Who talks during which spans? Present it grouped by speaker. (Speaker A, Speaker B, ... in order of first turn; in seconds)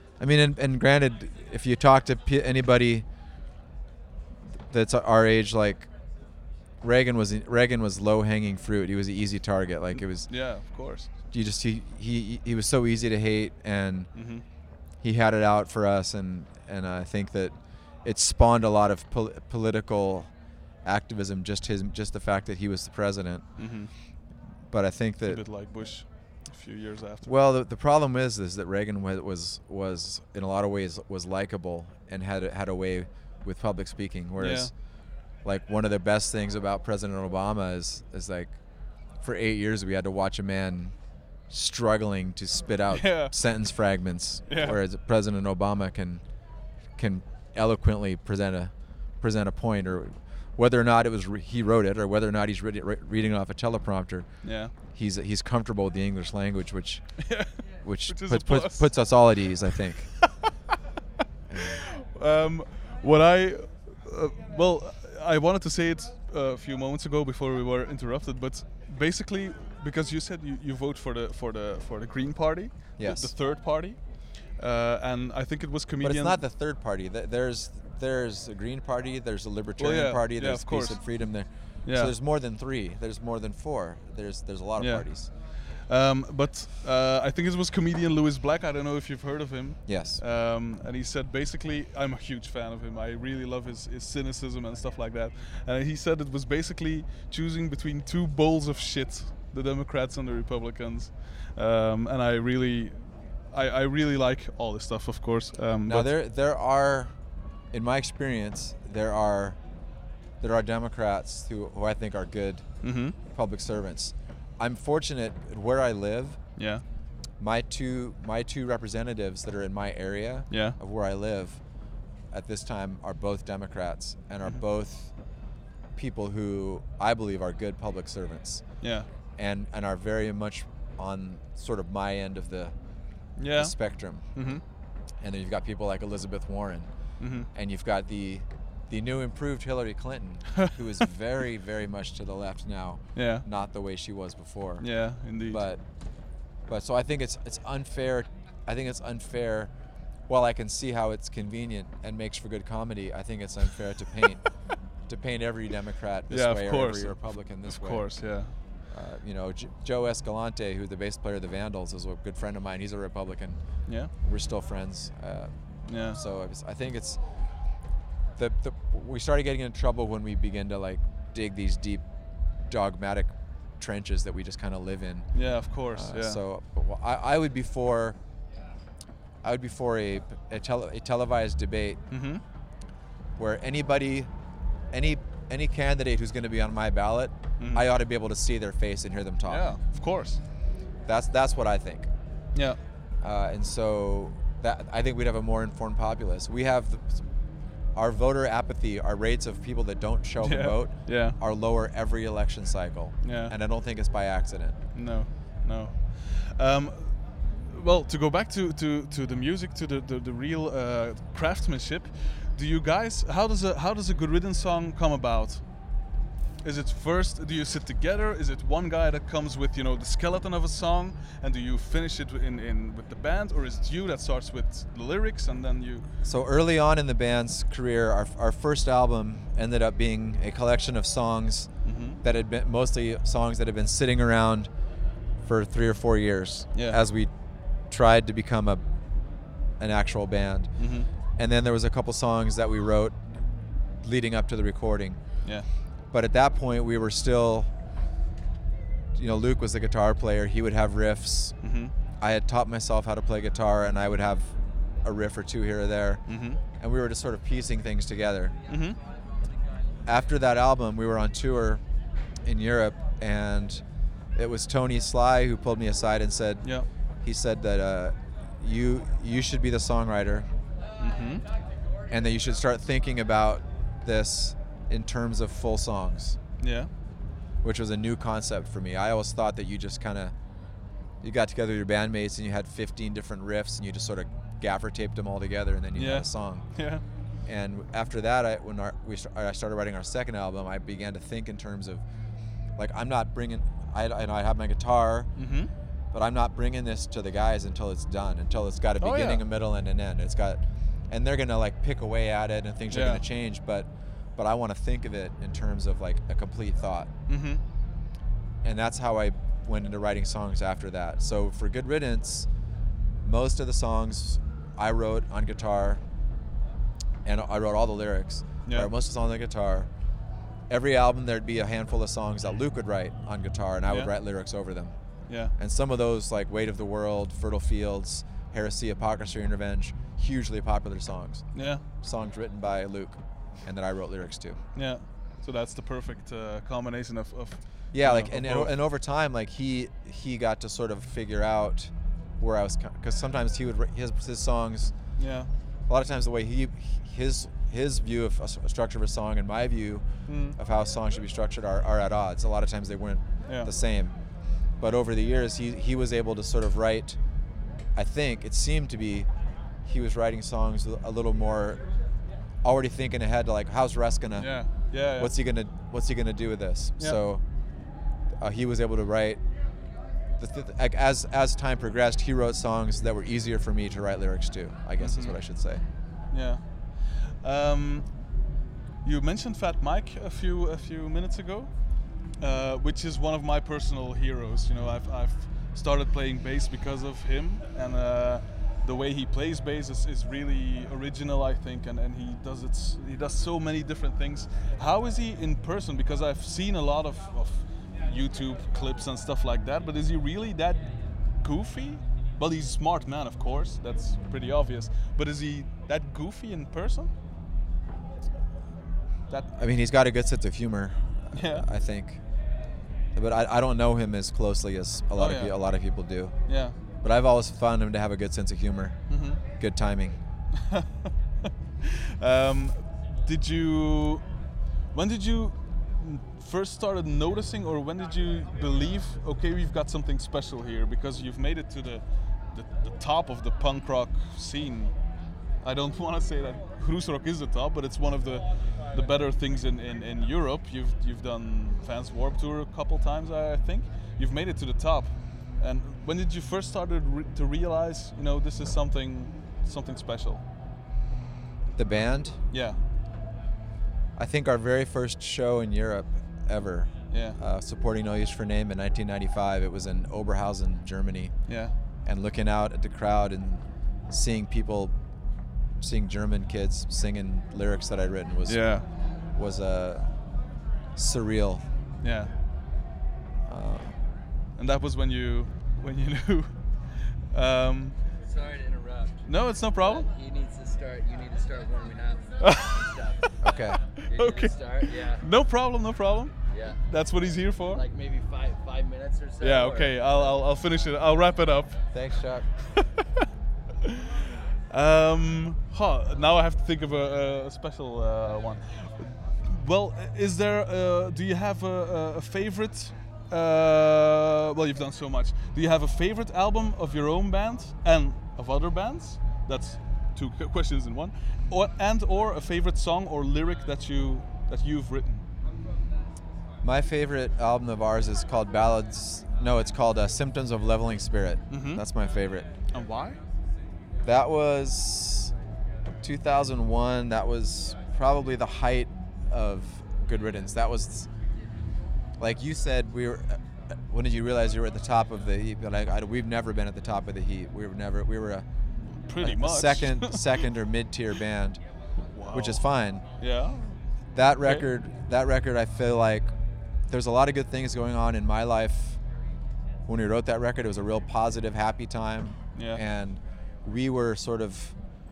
Speaker A: 0.2-3.0, 4.5-5.9, 6.8-10.4, 11.3-14.4, 15.0-20.3, 20.8-23.6, 24.7-25.4, 27.2-41.0, 41.5-46.2, 47.0-60.2, 61.5-61.8, 73.0-73.3, 76.0-85.3, 89.8-90.2, 105.8-107.2, 107.7-109.6, 110.4-116.4, 117.4-121.6, 122.3-125.1, 125.9-128.8, 129.3-134.6, 135.2-145.9, 146.7-149.7, 150.3-167.2, 168.3-172.1, 172.7-178.2, 179.4-182.0, 183.3-184.3, 184.9-189.7, 191.0-192.1, 193.2-197.3, 197.9-204.8, 226.2-234.7, 235.4-237.3, 237.9-238.8, 239.8-240.7, 241.3-243.4, 244.0-245.4, 246.1-247.7, 249.1-251.6, 252.2-256.2, 256.8-258.6, 260.1-261.8, 262.4-263.8, 264.3-270.5, 272.1-276.4, 277.6-280.3, 281.2-286.7, 287.4-292.0, 292.8-295.3, 296.1-307.1, 308.6-312.5, 313.2-316.0, 317.2-319.9, 320.7-324.9, 325.6-331.4, 332.0-334.6, 337.9-344.9, 345.9-354.1, 354.8-357.2, 357.9-359.3, 359.8-361.8, 362.6-364.6, 365.1-367.4, 368.4-369.4, 370.4-375.8, 409.5-412.2, 413.1-416.3, 417.0-419.0, 419.5-420.2, 451.8-452.4, 454.2-461.3, 462.0-464.9, 465.8-470.1, 470.9-471.6, 473.5-474.0, 483.4-483.8, 491.9-492.5, 516.6-522.5, 524.0-525.3, 526.0-531.1, 532.2-538.5, 539.2-541.6, 542.3-543.0, 544.1-546.3, 546.9-549.0, 549.9-554.8
Speaker B: 9.9-11.1, 14.1-14.4, 23.6-23.9, 25.3-27.3, 34.4-34.7, 42.9-43.4, 44.5-44.8, 54.4-54.7, 57.2-58.9, 61.9-76.4, 79.8-81.2, 81.8-82.1, 84.8-106.1, 112.8-113.1, 116.5-116.8, 120.5-120.8, 128.8-129.1, 133.3-134.6, 137.2-137.5, 143.1-143.4, 144.8-145.6, 156.3-158.5, 163.8-164.1, 165.8-166.2, 175.3-176.4, 182.1-182.4, 187.6-187.8, 189.5-190.4, 192.5-192.8, 200.4-201.4, 203.2-203.5, 204.9-215.9, 216.6-226.1, 231.8-232.2, 236.7-237.0, 240.8-241.1, 251.6-251.9, 256.3-256.6, 258.7-259.0, 271.0-271.4, 276.6-276.9, 285.9-287.0, 295.4-295.7, 299.0-299.4, 302.9-303.2, 307.3-307.6, 325.3-325.5, 331.5-331.8, 334.7-338.7, 345.2-345.5, 350.2-350.6, 353.4-353.7, 364.4-365.3, 375.0-375.4, 376.3-378.2, 379.0-381.7, 382.4-407.1, 411.3-411.7, 415.2-415.6, 416.5-416.8, 419.1-419.4, 420.6-420.9, 421.8-424.2, 424.9-434.9, 435.6-450.4, 452.5-452.8, 457.1-457.4, 461.5-461.7, 468.4-468.8, 472.0-472.3, 474.6-478.0, 479.2-480.1, 482.4-482.9, 484.0-487.8, 489.4-491.8, 492.8-493.0, 494.0-515.2, 521.5-521.8, 522.7-523.2, 538.9-540.4, 542.1-542.6, 543.2-543.8, 552.5-552.8
Speaker C: 478.2-479.2, 479.8-483.4, 484.1-485.3, 486.5-486.8, 487.6-490.4